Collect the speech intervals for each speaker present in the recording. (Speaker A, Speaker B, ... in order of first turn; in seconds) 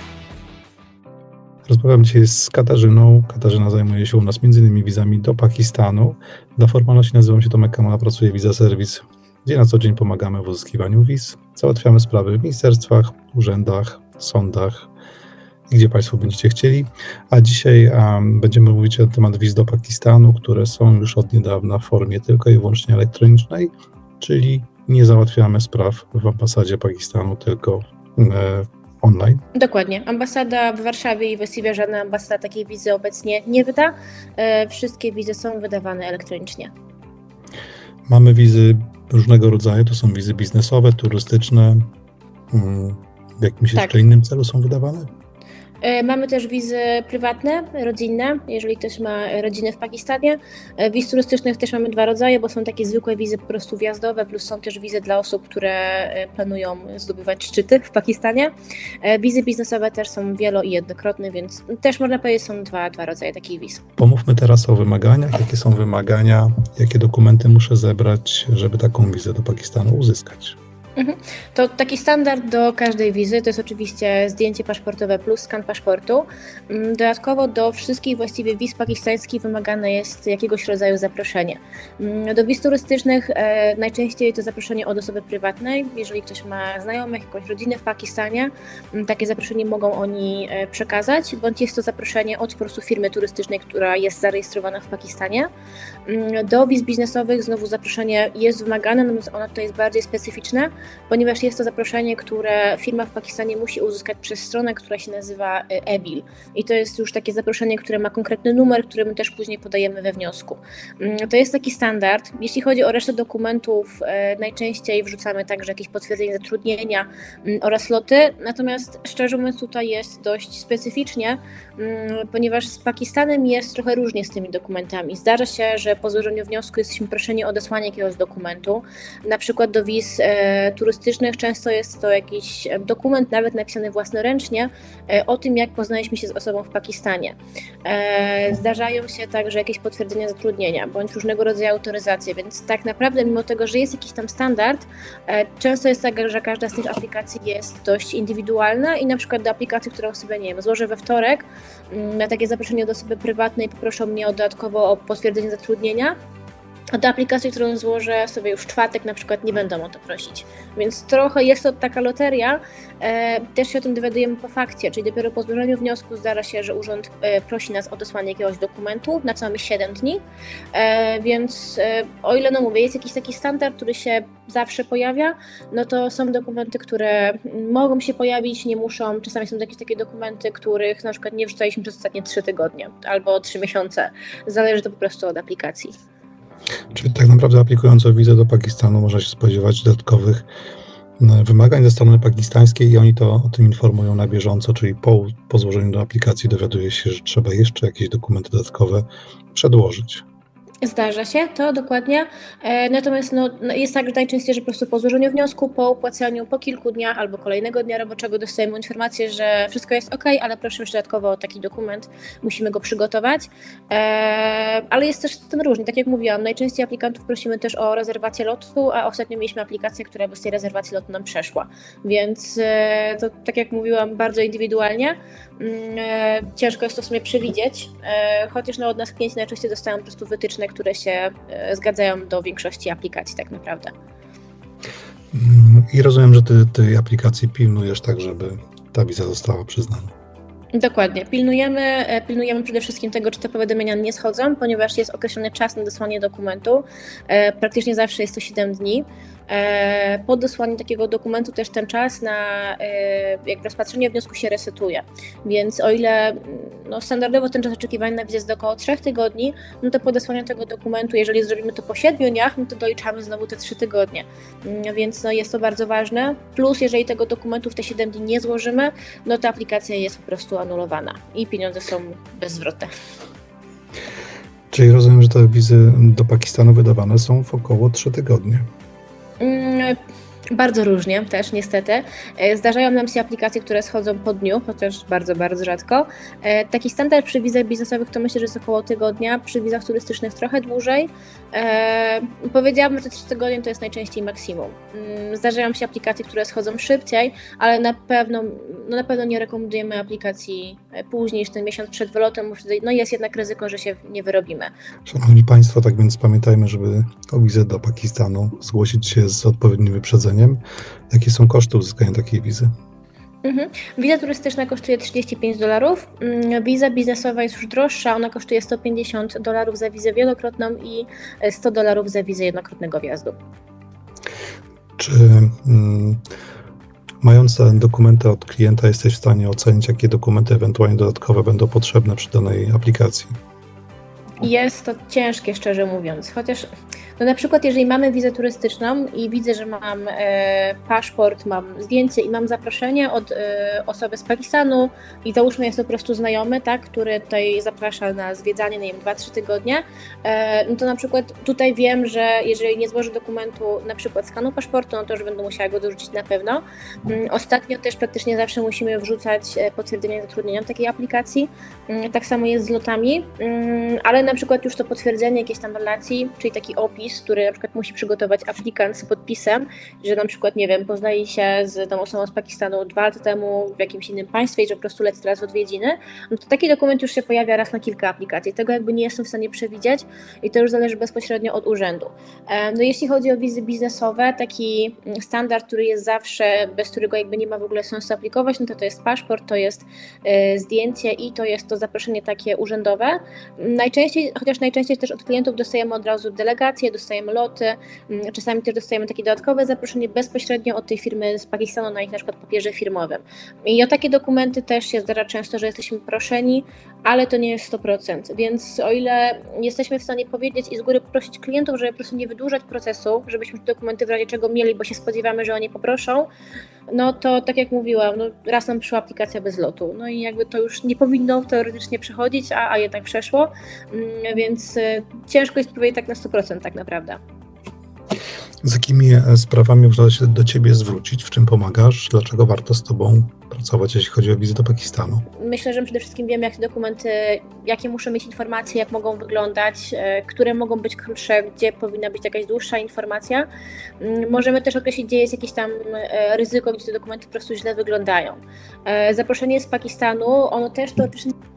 Speaker A: 1.6-14.9, 15.7-29.4, 38.1-41.9, 42.5-45.1, 64.0-70.6, 186.9-190.5, 191.2-200.2, 235.3-240.1, 274.7-278.7, 305.1-310.6, 311.1-312.7, 325.0-326.2, 327.2-333.3, 428.6-435.2
Speaker B: 29.5-36.7, 45.8-58.5, 59.0-63.8, 71.0-95.5, 96.1-156.2, 156.9-170.2, 170.7-185.9, 200.8-233.9, 240.7-272.9, 279.4-280.0, 280.5-304.7, 313.4-323.4, 334.4-336.7, 337.2-416.3, 416.9-427.2, 435.4-443.5, 444.0-451.3